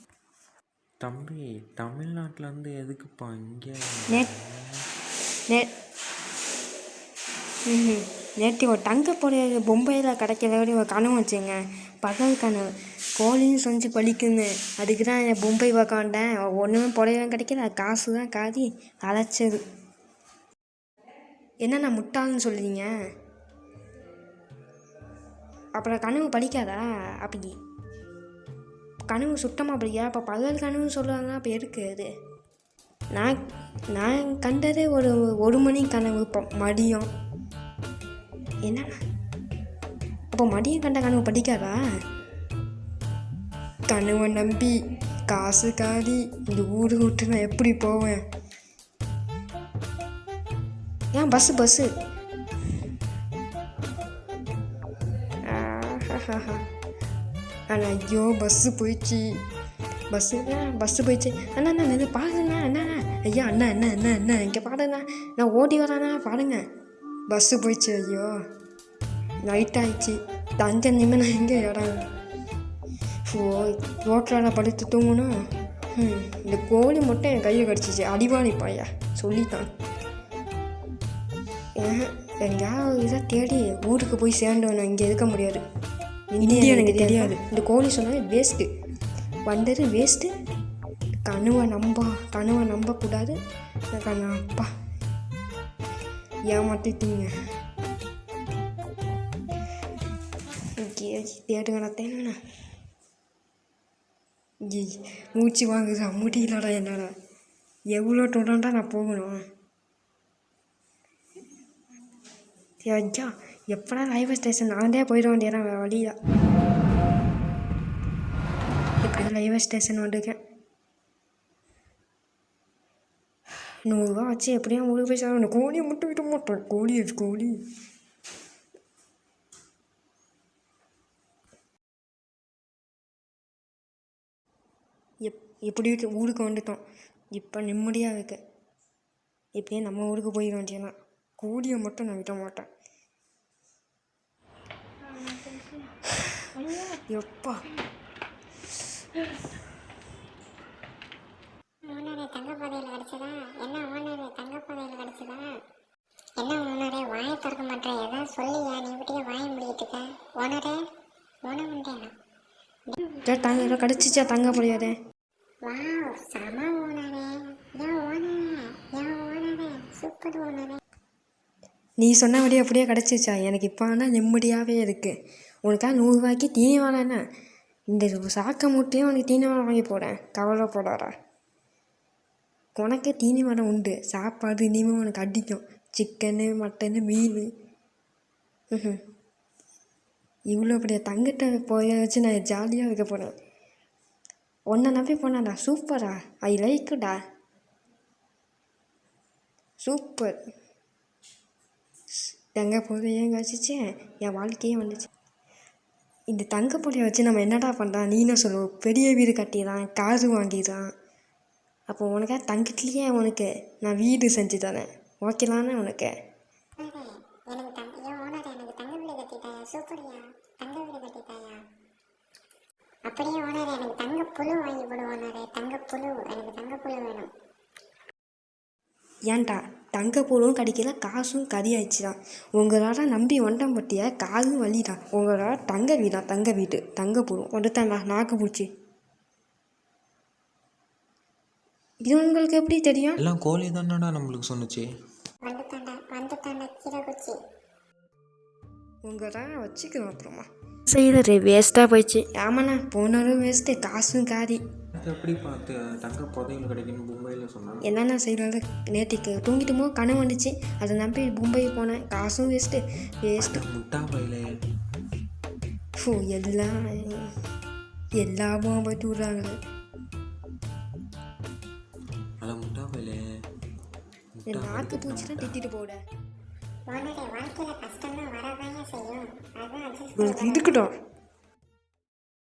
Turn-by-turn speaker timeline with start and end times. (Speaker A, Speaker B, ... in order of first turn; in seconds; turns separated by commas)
Speaker A: 1.0-4.4, Speaker B: 7.7-12.7, Speaker B: 13.2-19.6, Speaker B: 21.6-22.9, Speaker B: 25.8-27.6, Speaker B: 29.1-32.1, Speaker B: 33.9-37.1, Speaker B: 38.6-38.9, Speaker B: 40.3-41.8, Speaker B: 43.9-44.8, Speaker B: 45.3-48.2, Speaker B: 51.1-51.9, Speaker B: 55.5-56.6, Speaker B: 57.7-59.2, Speaker B: 60.1-66.6, Speaker B: 67.3-68.3, Speaker B: 69.4-71.9, Speaker B: 73.3-75.3, Speaker B: 76.0-79.7, Speaker B: 81.8-85.6, Speaker B: 86.3-88.7, Speaker B: 89.5-90.3, Speaker B: 91.3-93.3, Speaker B: 94.0-94.7, Speaker B: 96.5-97.3, Speaker B: 100.8-102.3, Speaker B: 104.7-107.1, Speaker B: 107.9-109.4, Speaker B: 112.8-116.1, Speaker B: 119.0-120.4, Speaker B: 123.9-127.5, Speaker B: 135.2-136.8, Speaker B: 137.3-138.4, Speaker B: 139.5-142.7, Speaker B: 146.9-147.6, Speaker C: 151.9-155.5, Speaker C: 156.4-160.8, Speaker C: 161.4-162.1, Speaker B: 163.2-164.9, Speaker C: 165.6-170.8, Speaker B: 172.0-175.1, Speaker B: 175.7-177.2, Speaker B: 177.9-181.1, Speaker B: 182.8-187.4, Speaker B: 188.7-189.0, Speaker B: 190.5-193.3, Speaker B: 194.7-197.2, Speaker B: 199.8-200.3, Speaker B: 202.5-205.1, Speaker B: 206.3-210.9, Speaker B: 211.9-216.1, Speaker C: 216.8-221.6, Speaker C: 223.1-227.3, Speaker B: 229.3-238.7, Speaker B: 242.0-243.2, Speaker A: 243.2-244.8, Speaker C: 245.4-247.3, Speaker B: 249.1-254.6, Speaker A: 255.0-257.8, Speaker B: 257.8-263.6, Speaker A: 263.4-264.5, Speaker B: 266.0-267.3, Speaker B: 268.2-269.5, Speaker A: 272.4-273.2, Speaker A: 274.4-275.5, Speaker B: 274.5-276.0, Speaker C: 276.9-280.8, Speaker B: 280.2-280.9